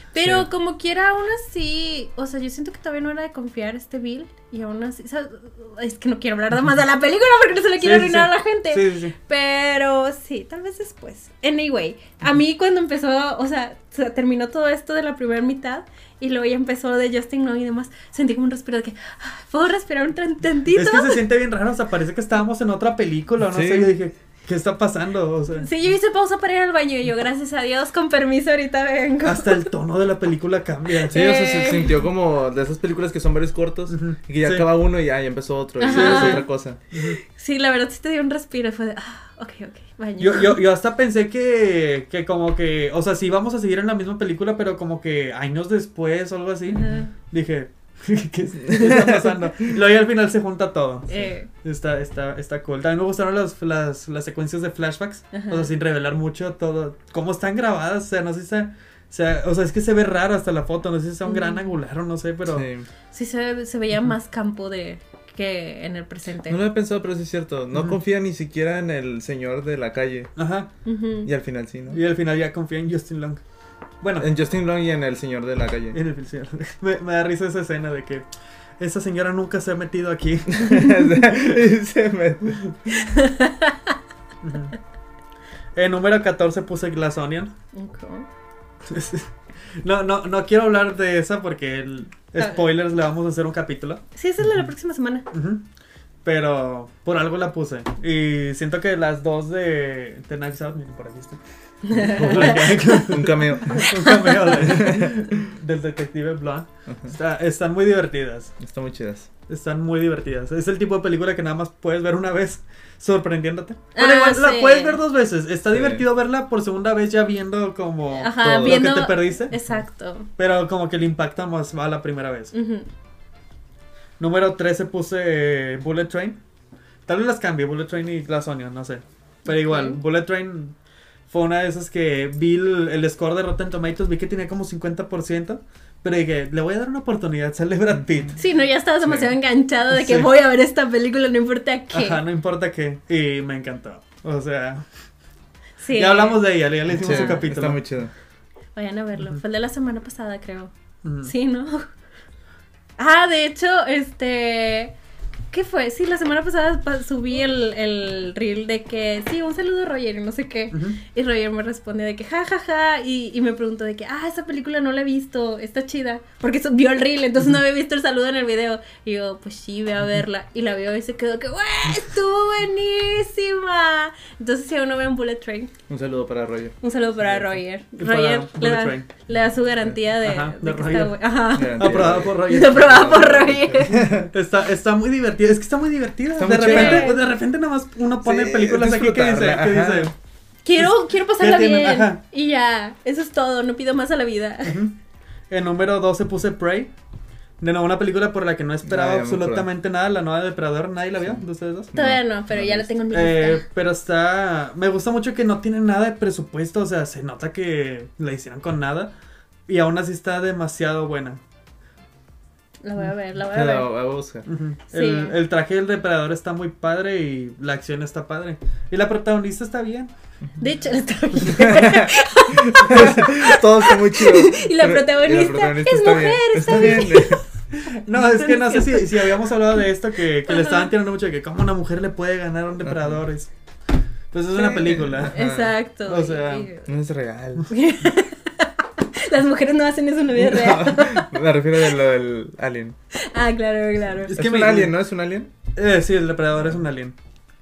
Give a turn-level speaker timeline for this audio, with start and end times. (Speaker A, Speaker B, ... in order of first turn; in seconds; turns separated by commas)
Speaker A: 0.1-21.2, Speaker B: 0.2-0.5, Speaker C: 7.8-9.2, Speaker C: 20.7-25.7, Speaker B: 23.4-23.9, Speaker A: 25.6-29.7, Speaker C: 29.2-31.4, Speaker A: 31.0-32.0, Speaker B: 31.1-36.8, Speaker C: 33.9-34.7, Speaker A: 35.8-40.6, Speaker C: 35.8-37.2, Speaker C: 40.2-62.7, Speaker A: 46.7-47.1, Speaker B: 48.7-49.2, Speaker A: 51.1-51.5, Speaker A: 55.3-55.7, Speaker A: 61.3-61.7, Speaker B: 62.5-62.9, Speaker A: 63.1-66.6, Speaker B: 66.5-70.3, Speaker C: 70.4-70.7, Speaker A: 70.8-71.3, Speaker B: 71.2-72.0, Speaker C: 71.9-73.4, Speaker C: 74.0-74.3, Speaker B: 74.2-76.0, Speaker C: 75.9-78.3, Speaker C: 78.8-81.0, Speaker B: 80.5-82.7, Speaker A: 83.0-84.0, Speaker C: 84.4-84.8, Speaker C: 85.8-87.5, Speaker A: 87.7-88.3, Speaker C: 88.9-94.0, Speaker A: 94.2-95.3, Speaker C: 95.3-95.7, Speaker C: 96.2-108.5, Speaker A: 101.9-103.1, Speaker B: 102.0-104.0, Speaker A: 103.8-104.5, Speaker B: 104.5-105.2, Speaker B: 106.9-107.1, Speaker B: 108.6-109.3, Speaker C: 109.5-119.5, Speaker A: 114.0-115.0, Speaker B: 115.7-116.0, Speaker A: 118.2-120.3, Speaker B: 118.4-118.9, Speaker C: 120.4-122.5, Speaker A: 122.5-122.9, Speaker C: 124.2-126.4, Speaker C: 127.1-130.8, Speaker A: 129.5-130.0, Speaker C: 131.3-138.4, Speaker B: 137.9-138.3, Speaker A: 138.4-142.2, Speaker C: 139.9-140.3, Speaker C: 141.9-144.8, Speaker A: 145.8-146.4, Speaker C: 145.9-147.8, Speaker B: 146.9-148.1, Speaker A: 147.0-147.4, Speaker A: 148.8-150.7, Speaker C: 151.0-151.3, Speaker A: 151.2-151.9, Speaker A: 153.0-154.9, Speaker A: 155.5-175.7, Speaker C: 160.7-161.0, Speaker B: 175.9-177.6, Speaker A: 176.8-184.1, Speaker C: 178.0-179.1, Speaker C: 180.2-181.2, Speaker B: 181.5-184.3, Speaker C: 181.7-183.3, Speaker C: 183.9-190.1, Speaker B: 186.4-187.1, Speaker A: 186.6-187.3, Speaker B: 188.2-190.1, Speaker A: 190.7-194.8, Speaker C: 190.8-192.2, Speaker C: 194.7-194.9, Speaker C: 195.5-196.9, Speaker C: 197.6-201.9, Speaker B: 198.8-199.7, Speaker B: 201.2-202.9, Speaker A: 201.9-203.7, Speaker C: 203.1-209.1, Speaker C: 209.7-211.4, Speaker A: 212.8-213.9, Speaker B: 213.5-214.5, Speaker C: 214.5-220.1, Speaker A: 214.9-215.4, Speaker A: 220.6-227.4, Speaker B: 221.5-227.4, Speaker C: 226.7-227.2, Speaker C: 227.8-233.5, Speaker A: 228.2-229.5, Speaker A: 230.5-230.9, Speaker B: 232.8-233.2, Speaker C: 234.3-235.4, Speaker B: 234.6-235.7, Speaker A: 235.3-236.9, Speaker C: 236.1-236.7, Speaker B: 236.9-237.7, Speaker A: 237.7-241.3, Speaker B: 240.4-243.0, Speaker A: 243.2-244.4, Speaker C: 244.3-244.9, Speaker B: 244.3-245.5, Speaker C: 245.8-247.2